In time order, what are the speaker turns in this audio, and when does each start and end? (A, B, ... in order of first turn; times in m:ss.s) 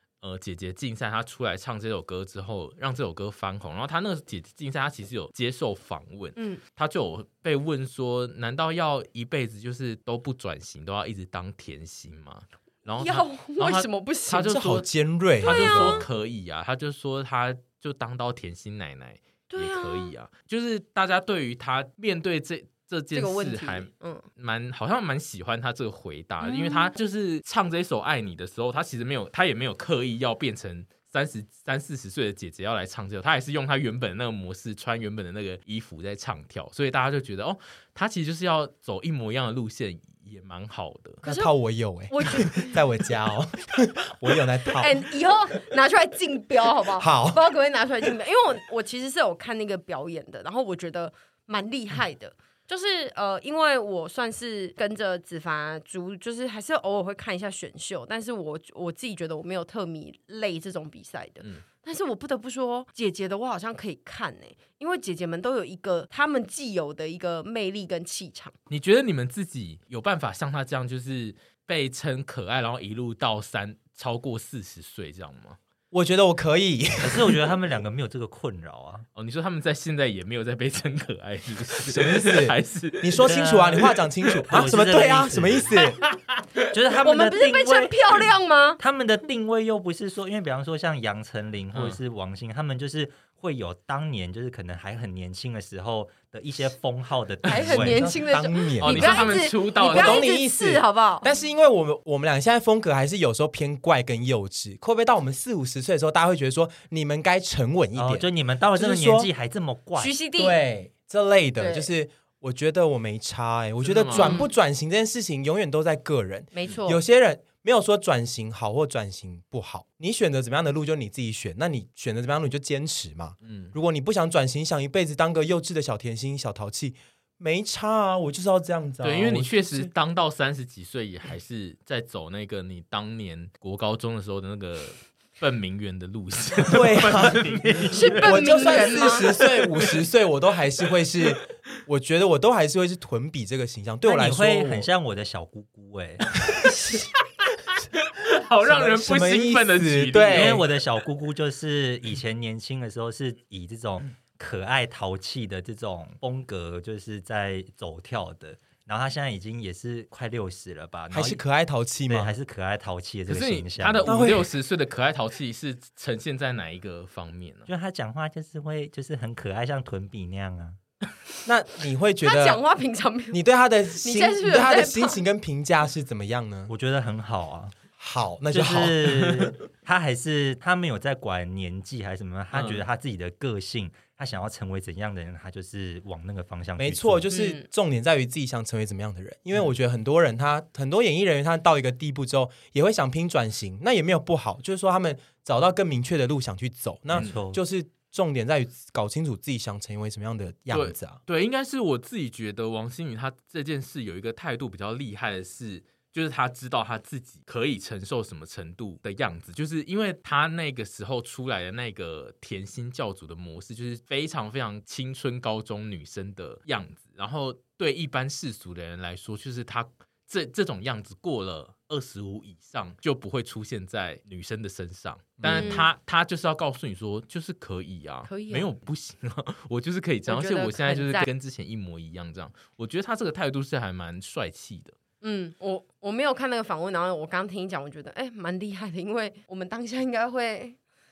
0:00.2-0:14.8 A
0:06.4-0:06.6 B
0:13.0-0:14.6 B
0:14.4-0:16.0 C
0:15.4-0:41.2 A
0:15.4-0:16.1 B
0:19.5-0:20.1 B
0:23.1-0:24.2 B
0:26.4-0:26.9 B
0:41.2-0:41.5 B
0:41.2-0:45.0 C
0:42.1-0:42.8 B
0:44.8-1:08.5 B
0:47.0-0:47.4 C
1:08.7-1:15.6 A
1:15.9-1:17.5 C
1:17.0-1:19.1 D
1:19.2-1:23.4 A
1:21.9-1:26.0 C
1:23.2-1:25.7 D
1:25.8-1:26.6 A
1:26.7-1:38.0 D
1:27.0-1:28.8 B
1:31.7-1:32.0 A
1:37.5-1:41.3 B
1:37.7-1:49.3 C
1:38.8-1:40.3 A
1:48.0-1:50.2 D
1:50.0-1:50.6 B
1:50.4-2:09.9 C
1:51.6-1:51.9 B
1:53.8-1:54.4 A
1:54.1-1:54.5 B
1:56.5-1:57.0 B
2:03.4-2:03.7 A
2:09.0-2:20.0 A
2:16.7-2:24.9 C
2:17.9-2:19.3 B
2:24.0-2:26.4 D
2:26.6-2:30.6 A
2:28.6-2:30.6 C
2:30.3-2:41.4 D
2:41.1-2:42.3 C
2:42.1-2:44.1 D
2:43.3-2:47.7 A
2:44.1-2:44.5 C
2:47.7-2:50.8 D
2:51.5-2:52.6 C
2:52.2-2:53.4 B
2:53.3-2:56.7 C
2:54.0-2:55.2 B
2:56.7-2:57.8 D
2:58.0-2:59.3 C
2:58.5-3:07.3 D
3:02.5-3:02.8 A
3:06.8-3:21.2 C
3:07.3-3:07.7 B
3:17.1-3:17.6 D
3:20.7-3:55.0 A
3:45.4-3:45.8 C
3:45.4-3:45.9 B
3:48.3-3:48.7 B
3:50.3-3:51.3 B
3:55.2-4:00.8 B